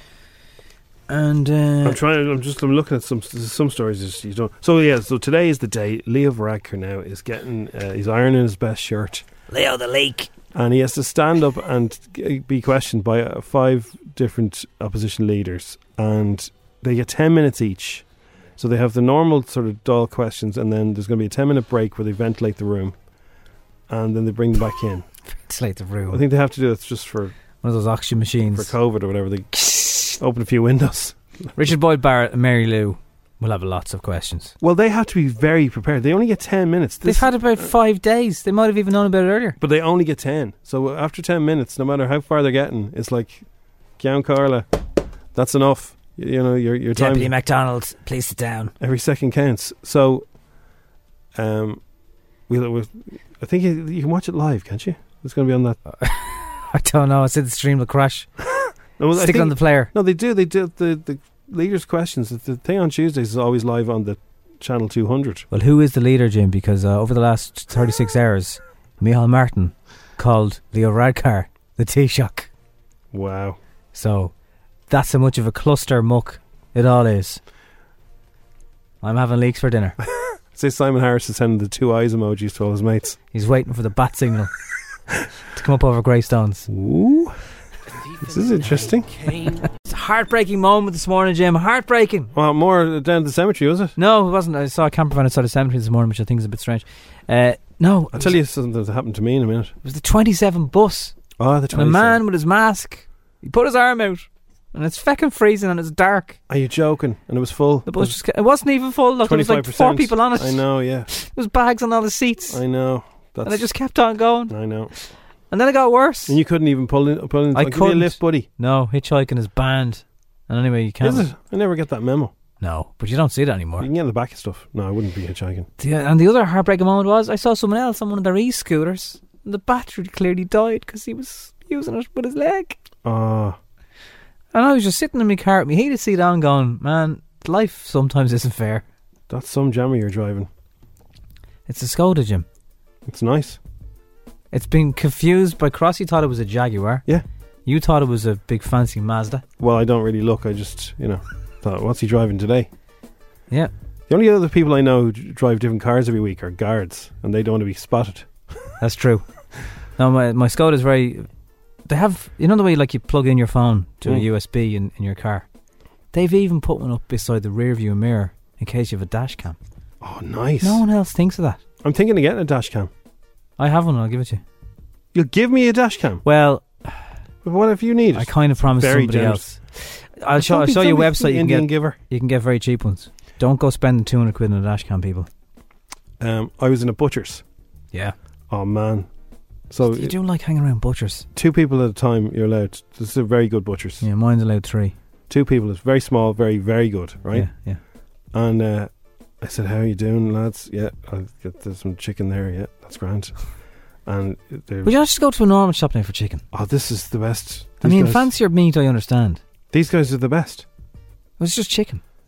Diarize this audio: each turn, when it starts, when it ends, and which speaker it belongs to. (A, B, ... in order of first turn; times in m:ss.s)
0:01.1-0:02.0 A
0:01.8-0:09.2 B
0:09.5-0:10.3 A
0:10.5-0:18.0 B
0:18.6-0:23.0 B
0:23.9-0:25.1 B
0:25.4-0:26.2 A
0:26.1-0:27.3 B
0:27.6-0:28.7 A
0:28.5-0:29.6 B
0:29.7-0:30.1 A
0:30.2-0:31.2 B
0:31.6-0:34.5 A
0:34.6-0:37.6 B
0:37.0-0:39.6 A
0:39.6-0:43.4 B
0:44.0-0:44.6 B
0:45.3-0:47.3 B
0:46.9-0:48.7 A
0:48.8-0:50.2 B
0:51.3-0:51.8 B
0:52.5-0:55.8 B
0:56.0-0:58.3 A
0:59.0-1:05.4 B
0:59.1-0:59.9 A
1:05.5-1:12.5 A
1:13.1-1:13.6 B
1:13.9-1:14.3 A
1:14.9-1:17.4 A
1:19.0-1:20.0 A
1:20.5-1:23.2 B
1:23.3-1:24.5 A
1:25.5-1:26.7 A
1:26.7-1:27.4 B
1:28.2-1:29.1 B
1:29.6-1:32.3 A
1:32.3-1:33.9 B
1:34.0-1:38.4 A
1:38.1-1:39.7 B
1:39.8-1:46.4 A
1:41.4-1:42.2 B
1:46.5-1:48.1 B
1:47.9-1:52.6 A
1:49.2-1:51.1 B
1:52.5-1:53.6 B
1:53.4-1:56.4 A
1:54.5-1:54.9 B
1:56.3-1:58.4 B
1:57.5-2:01.3 A
2:01.0-2:02.3 B
2:02.6-2:03.9 A
2:03.8-2:05.7 B
2:05.8-2:12.8 A
2:13.0-2:13.6 B
2:14.5-2:18.8 A
2:19.3-2:20.5 B
2:21.7-2:22.4 A
2:23.1-2:23.6 B
2:24.5-2:27.1 A
2:27.6-2:29.4 A
2:29.6-2:32.7 B
2:34.1-2:38.3 B
2:38.8-2:39.2 A
2:40.0-2:41.3 A
2:41.8-2:45.4 A
2:46.1-2:49.6 A
2:50.0-2:50.8 B
2:50.6-2:51.6 A
2:51.8-2:52.9 B
2:53.6-2:54.4 A
2:55.1-2:56.2 B
2:56.2-2:57.1 A
2:57.4-2:59.5 B
2:58.1-3:05.3 A
3:00.4-3:02.0 B
3:06.2-3:07.4 B
3:08.5-3:09.1 B
3:09.7-3:10.1 B
3:09.8-3:11.3 A
3:11.3-3:14.0 B
3:14.0-3:14.9 A
3:15.3-3:17.5 B
3:17.3-3:17.8 A
3:18.3-3:23.4 B
3:24.0-3:24.9 B
3:24.8-3:26.4 A
3:26.5-3:28.2 B
3:27.8-3:29.4 A
3:29.7-3:30.6 B
3:31.4-3:32.0 A